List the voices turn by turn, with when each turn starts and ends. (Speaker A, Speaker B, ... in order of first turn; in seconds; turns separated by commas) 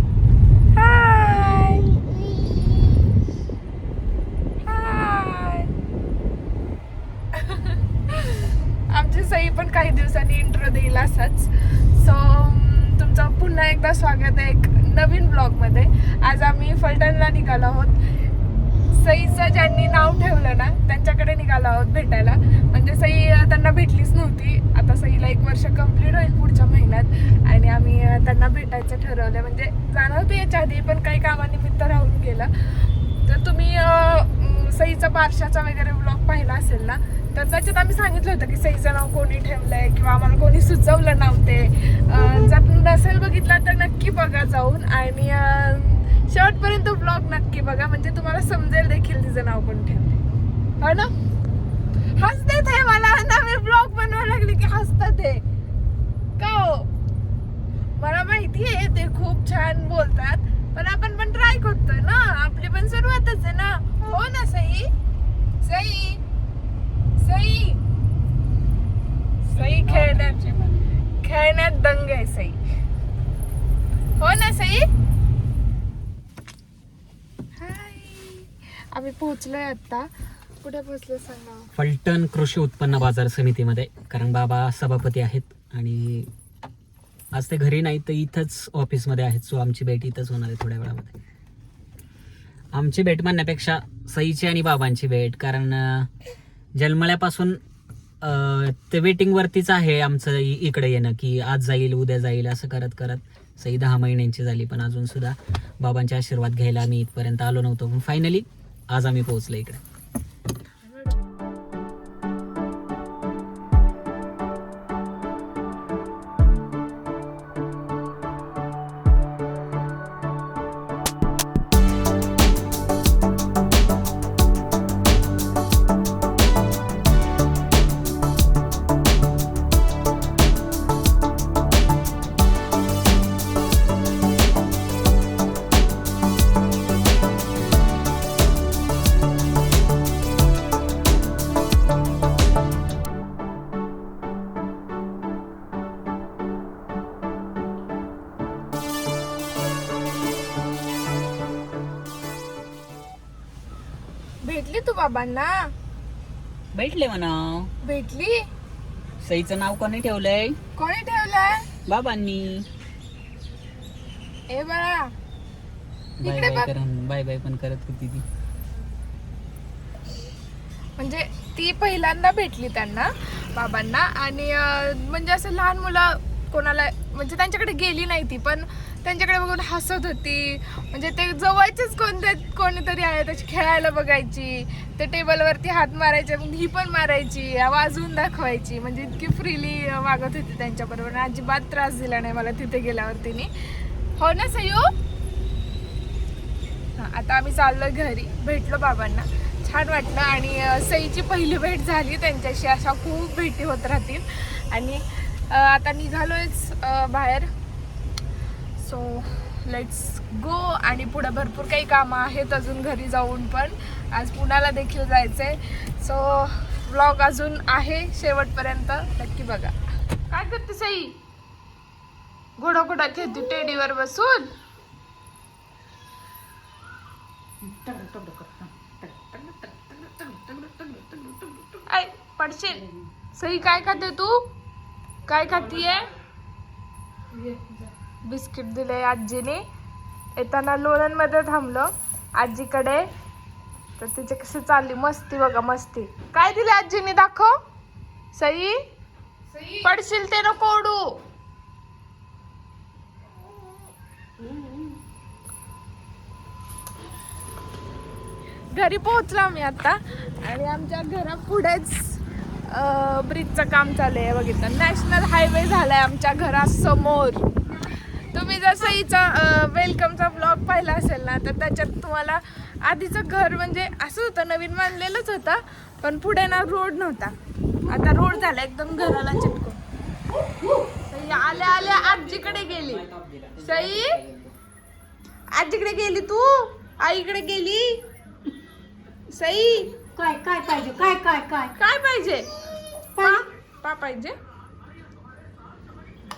Speaker A: 0.7-3.1, Speaker A: 4.6-5.7, Speaker A: 7.3-50.2, Speaker A: 50.8-51.1, Speaker A: 52.1-55.4, Speaker A: 56.4-56.9, Speaker A: 58.0-64.9, Speaker A: 65.6-66.2, Speaker A: 67.2-67.8, Speaker A: 69.5-70.4, Speaker B: 69.5-70.8, Speaker A: 71.2-72.6, Speaker A: 74.2-74.9, Speaker A: 77.5-80.1, Speaker A: 80.6-81.7, Speaker B: 81.8-86.3, Speaker B: 87.3-91.1, Speaker B: 92.7-96.1, Speaker B: 96.8-97.6, Speaker B: 98.2-109.8, Speaker A: 154.4-155.7, Speaker B: 156.7-157.7, Speaker A: 157.8-158.4, Speaker B: 159.2-160.6, Speaker A: 160.8-161.7, Speaker B: 161.8-162.7, Speaker A: 164.5-165.1, Speaker B: 166.2-168.2, Speaker A: 166.2-166.7, Speaker A: 171.0-193.5, Speaker A: 194.2-194.9, Speaker A: 196.9-207.5, Speaker A: 208.8-221.2, Speaker A: 222.6-224.5, Speaker C: 227.6-231.8, Speaker A: 231.9-234.4, Speaker C: 232.7-233.0, Speaker A: 235.2-236.1, Speaker C: 237.3-237.9, Speaker A: 238.2-239.6, Speaker A: 240.3-243.1, Speaker A: 244.0-247.6, Speaker A: 248.3-248.8, Speaker A: 249.6-251.2, Speaker A: 258.7-277.4, Speaker A: 277.9-279.8, Speaker A: 281.0-283.0, Speaker B: 281.1-284.5, Speaker A: 283.6-284.2, Speaker A: 285.5-288.0, Speaker A: 289.3-290.0, Speaker C: 290.1-291.7, Speaker A: 291.7-292.5, Speaker C: 293.1-293.4, Speaker A: 293.2-294.3